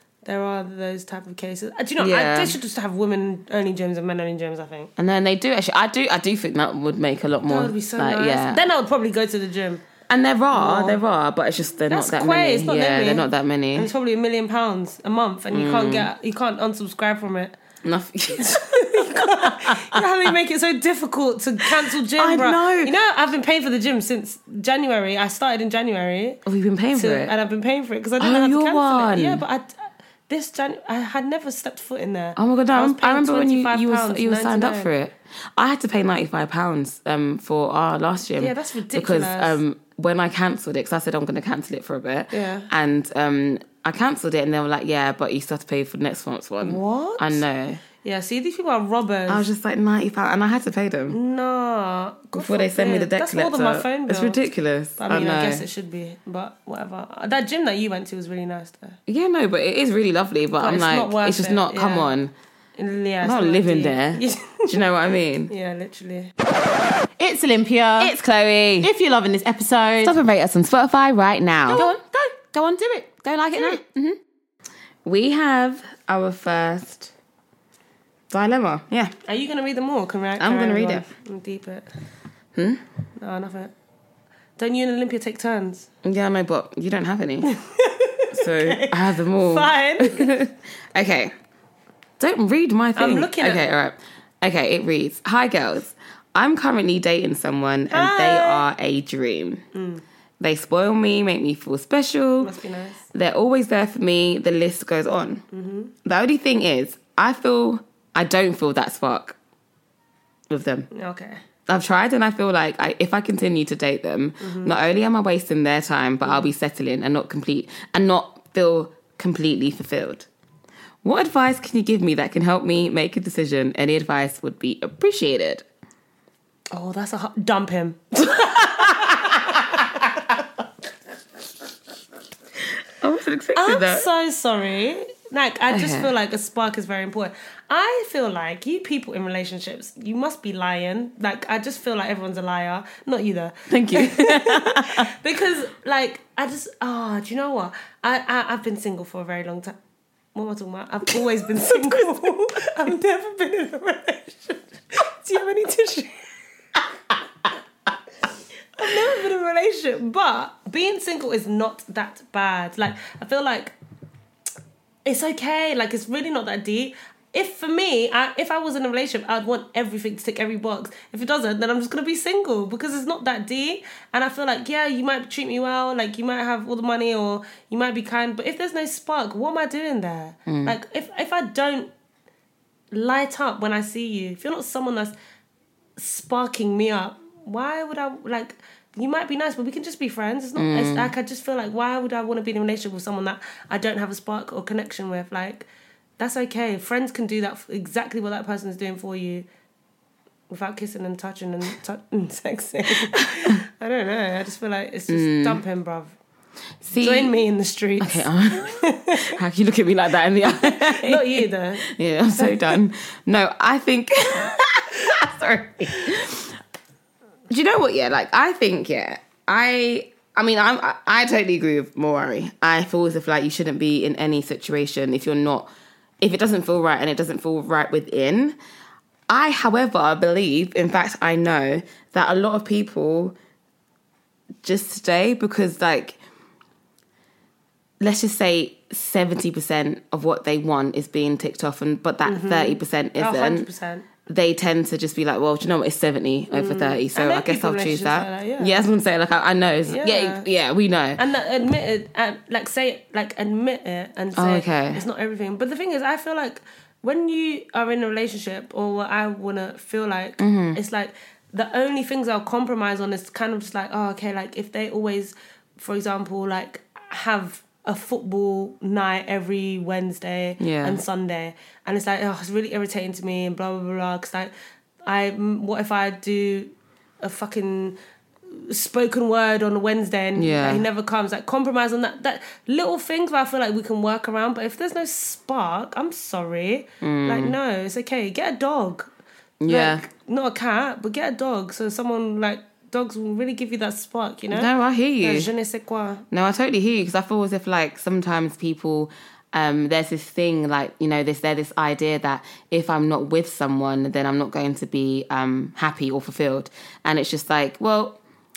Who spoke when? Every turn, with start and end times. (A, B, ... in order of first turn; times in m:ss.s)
0:00.2-0:04.9 A
0:02.0-0:02.6 B
0:05.0-0:08.6 B
0:07.5-0:09.8 A
0:10.1-0:13.9 B
0:10.5-0:11.0 A
0:11.9-0:17.6 A
0:15.5-0:16.1 B
0:17.8-0:20.1 B
0:18.3-0:26.4 A
0:21.6-0:22.9 B
0:26.4-0:27.3 B
0:26.9-0:34.9 A
0:28.2-0:29.4 B
0:32.4-0:47.8 B
0:38.4-0:39.6 A
0:42.3-0:42.7 A
0:46.6-0:47.4 A
0:48.0-0:49.5 A
0:49.3-0:51.2 B
0:51.1-0:54.4 A
0:52.3-0:55.7 B
0:55.0-0:59.0 A
0:59.1-1:02.3 B
1:00.6-1:02.1 A
1:02.8-1:04.8 A
1:03.2-1:05.5 B
1:05.5-1:06.3 A
1:07.2-1:08.1 C
1:08.0-1:08.9 B
1:08.8-1:10.1 C
1:10.0-1:12.0 B
1:11.7-1:13.8 C
1:13.2-1:14.2 B
1:15.0-1:17.1 B
1:18.3-1:19.1 B
1:19.2-1:21.9 A
1:20.4-1:21.0 B
1:22.5-1:22.8 B
1:23.2-1:23.7 A
1:24.6-1:25.9 A
1:26.0-1:27.5 B
1:27.4-1:30.4 A
1:28.3-1:31.3 B
1:32.2-1:39.6 B
1:33.0-1:33.6 A
1:37.9-1:38.6 A
1:39.7-1:40.0 A
1:40.4-1:42.5 B
1:42.4-1:43.1 A
1:43.1-1:45.4 B
1:45.5-1:45.9 A
1:46.0-1:49.4 B
1:50.5-1:50.9 B
1:50.9-1:51.4 A
1:51.7-2:00.3 B
1:54.4-1:54.7 A
1:56.2-1:56.5 A
2:01.0-2:05.6 B
2:06.7-2:10.0 A
2:08.4-2:09.4 B
2:13.0-2:14.1 B
2:13.5-2:29.8 A
2:15.7-2:16.1 B
2:23.7-2:25.1 B
2:30.3-2:36.3 A
2:31.2-2:32.0 B
2:38.8-2:43.7 A
2:45.0-3:01.9 A
3:00.4-3:00.8 B
3:02.9-3:05.1 A
3:06.0-3:15.7 A
3:10.6-3:11.1 B
3:16.2-3:19.4 A
3:20.5-3:26.2 A
3:25.1-3:25.6 B
3:26.8-3:27.3 B
3:27.0-3:29.4 A
3:28.0-3:36.6 B
3:30.4-3:32.8 A
3:37.5-3:45.7 B
3:46.2-3:48.6 B
3:49.3-3:53.3 B
3:54.6-3:56.2 B
3:58.0-4:03.7 B
4:02.2-4:04.0 A
4:04.3-4:11.2 B
4:06.5-4:08.8 A
4:09.8-4:10.5 A
4:11.2-4:34.5 A
4:14.3-4:15.0 B
4:20.4-4:20.8 B
4:30.6-4:31.0 B
4:35.0-4:49.1 A
4:40.4-4:40.8 B
4:47.0-4:47.6 B
4:49.6-4:50.0 B
4:49.7-4:54.7 A
4:54.5-4:55.5 B
4:55.2-4:56.2 A
4:56.3-5:08.2 B